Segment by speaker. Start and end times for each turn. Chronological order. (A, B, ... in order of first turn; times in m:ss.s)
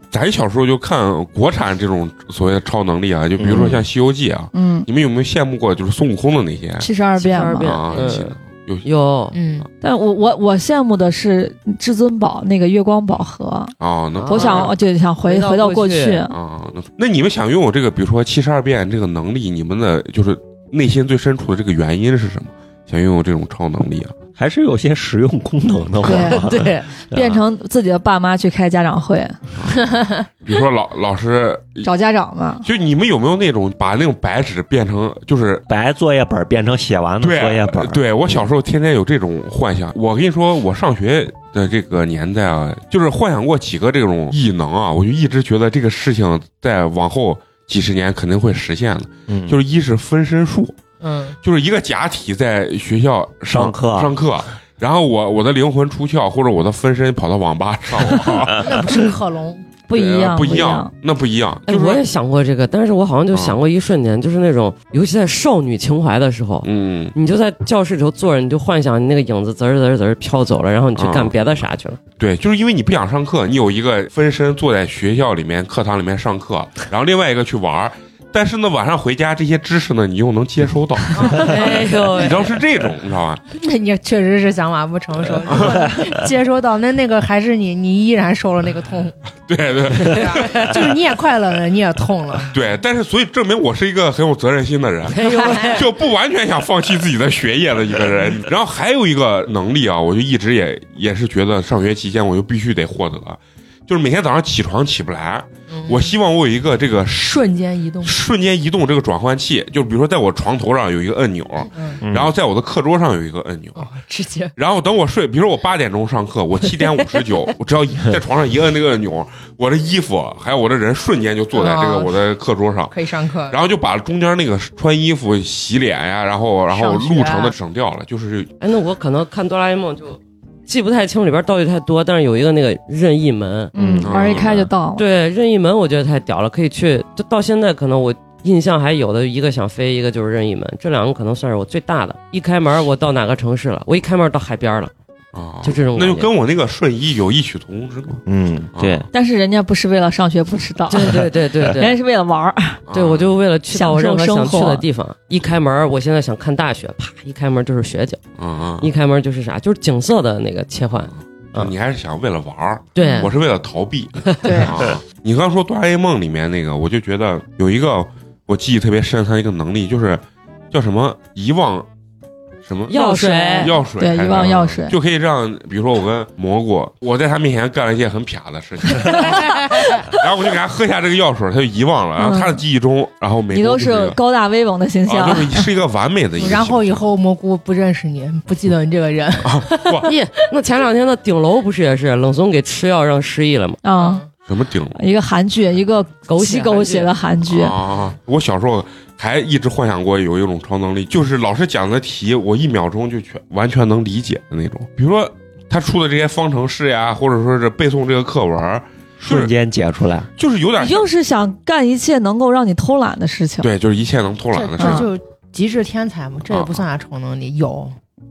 0:00.1-0:06.9 A
0:03.4-0:03.8 B
0:04.5-0:04.9 C
0:06.8-0:07.8 C
0:07.2-0:09.4 D
0:07.6-0:08.9 A
0:09.3-0:09.7 E
0:09.8-0:13.8 C
0:13.8-0:14.7 A
0:14.2-0:16.3 D
0:14.3-0:16.4 C
0:16.3-0:24.2 A
0:24.4-0:27.4 B
0:26.0-0:26.5 C
0:26.1-0:26.9 D
0:27.1-0:29.4 C
0:30.4-0:31.9 A
0:31.8-0:32.7 C
0:32.6-0:35.7 A
0:35.7-0:38.0 B
0:37.2-0:50.8 A
0:49.3-0:49.6 B
0:51.0-0:51.4 E
0:51.4-0:58.9 A
0:53.5-0:54.2 B
0:58.6-0:59.7 E
0:59.9-1:00.9 C
0:59.9-1:02.0 A
1:01.7-1:12.0 D
1:03.3-1:03.6 A
1:06.6-1:07.1 A
1:11.0-1:11.4 A
1:12.2-1:23.4 A
1:21.2-1:22.4 E
1:21.2-1:22.6 D
1:23.5-1:29.2 E
1:25.5-1:25.9 A
1:29.5-1:30.8 A
1:30.0-1:32.5 E
1:30.4-1:30.7 D
1:32.5-1:47.5 A
1:35.1-1:35.9 D
1:35.3-1:35.8 E
1:45.7-1:46.1 E
1:47.2-1:48.2 E
1:48.0-1:53.9 A
1:51.7-1:52.0 E
1:52.0-1:52.3 B
1:53.8-1:54.5 E
1:54.6-2:08.5 A
2:01.5-2:02.2 E
2:02.9-2:03.6 E
2:06.7-2:07.6 E
2:08.6-2:13.7 D
2:13.8-2:15.0 C
2:13.8-2:14.5 B
2:14.0-2:14.6 A
2:15.0-2:24.9 D
2:25.3-2:28.2 A
2:25.6-2:26.3 D
2:28.3-2:29.1 B
2:28.8-2:29.1 A
2:29.1-2:32.8 C
2:30.9-2:32.0 D
2:32.9-2:33.3 A
2:32.9-2:38.2 D
2:33.7-2:34.8 C
2:38.4-2:38.9 A
2:38.8-2:41.7 D
2:41.6-2:51.9 A
2:43.0-2:43.3 D
2:44.3-2:44.7 D
2:44.4-2:44.8 E
2:52.6-2:53.0 A
2:52.9-2:53.8 D
2:52.9-2:55.0 C
2:53.6-3:04.2 A
2:59.2-3:00.0 E
3:02.2-3:02.6 C
3:03.5-3:05.7 C
3:05.1-3:07.0 A
3:06.4-3:09.7 E
3:09.4-3:10.1 A
3:10.0-3:13.8 D
3:13.8-3:14.2 C
3:14.0-3:14.3 E
3:14.5-3:15.0 A
3:15.0-3:17.8 C
3:16.3-3:17.1 D
3:17.5-3:29.5 A
3:29.2-3:30.3 B
3:30.4-3:31.1 A
3:30.8-3:33.7 C
3:33.6-3:35.1 A
3:34.5-3:38.0 E
3:34.8-3:35.1 C
3:36.5-3:36.8 A